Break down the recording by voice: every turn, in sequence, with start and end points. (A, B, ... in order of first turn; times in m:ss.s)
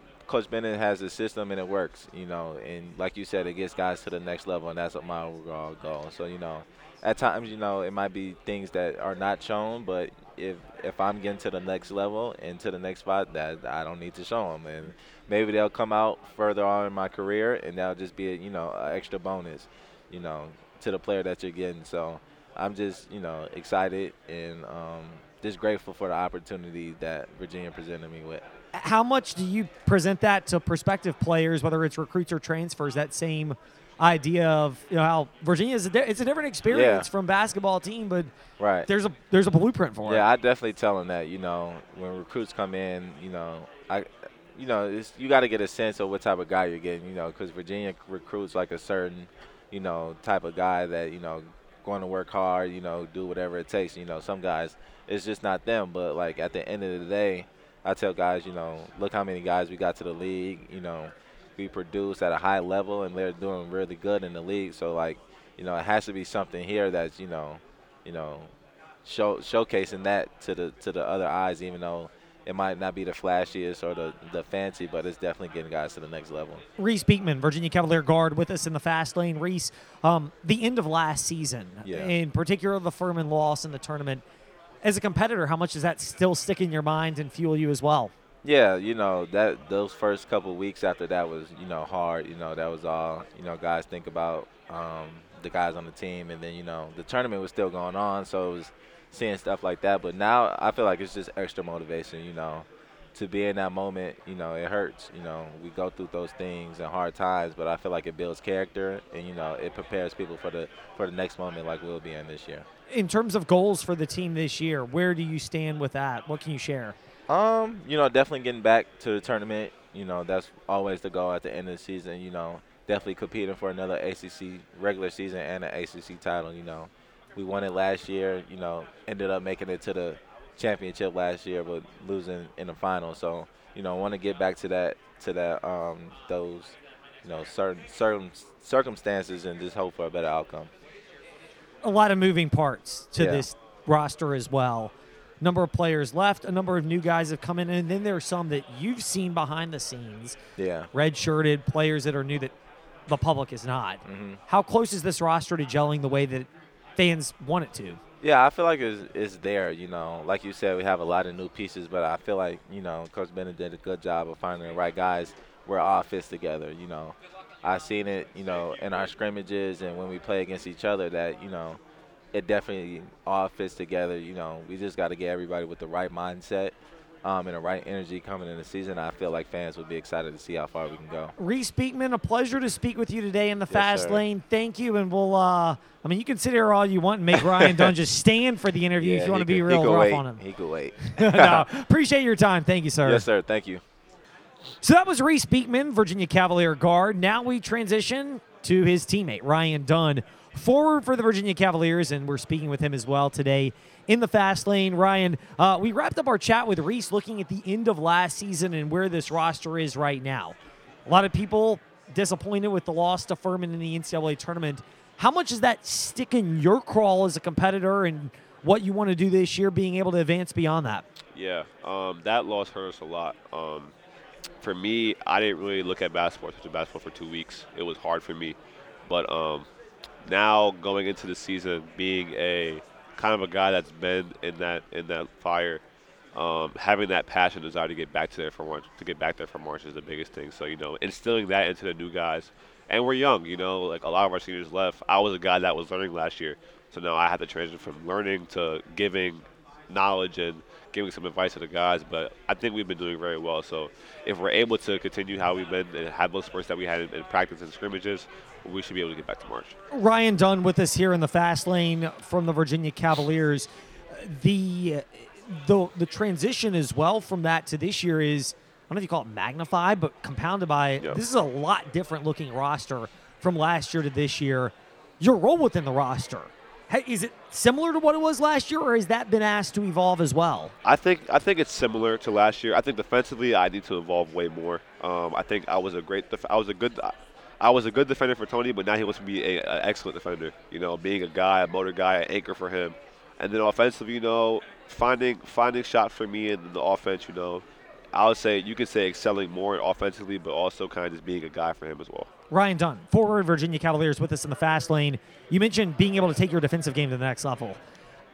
0:00.3-0:28.4 A
0:28.7-0:38.3 B
0:36.7-0:37.1 A
0:38.6-0:38.9 A
0:38.9-0:40.3 B
0:40.0-1:08.5 A
1:09.0-1:16.6 A
1:16.8-1:24.2 B
1:21.8-1:22.1 A
1:24.8-1:28.1 B
1:28.4-1:52.7 A
1:52.9-1:57.0 B
1:57.3-2:20.7 A
2:21.8-2:30.4 B
2:23.2-2:23.4 A
2:30.6-2:30.9 A
2:30.9-2:32.5 B
2:33.1-2:38.0 B
2:34.1-2:34.4 A
2:38.2-2:51.8 A
2:52.3-3:01.3 A
3:01.4-3:10.4 B
3:03.7-3:04.2 A
3:07.3-3:07.9 A
3:09.0-3:11.7 A
3:11.1-3:13.3 B
3:13.0-3:13.8 A
3:14.8-3:30.6 B
3:31.1-3:41.0 B
3:41.3-3:43.9 C
3:44.6-3:48.6 C
3:49.1-3:49.7 C
3:50.2-3:55.8 C
3:56.4-4:19.8 C
4:19.9-4:40.7 B
4:40.8-5:02.3 C
5:02.5-5:07.8 B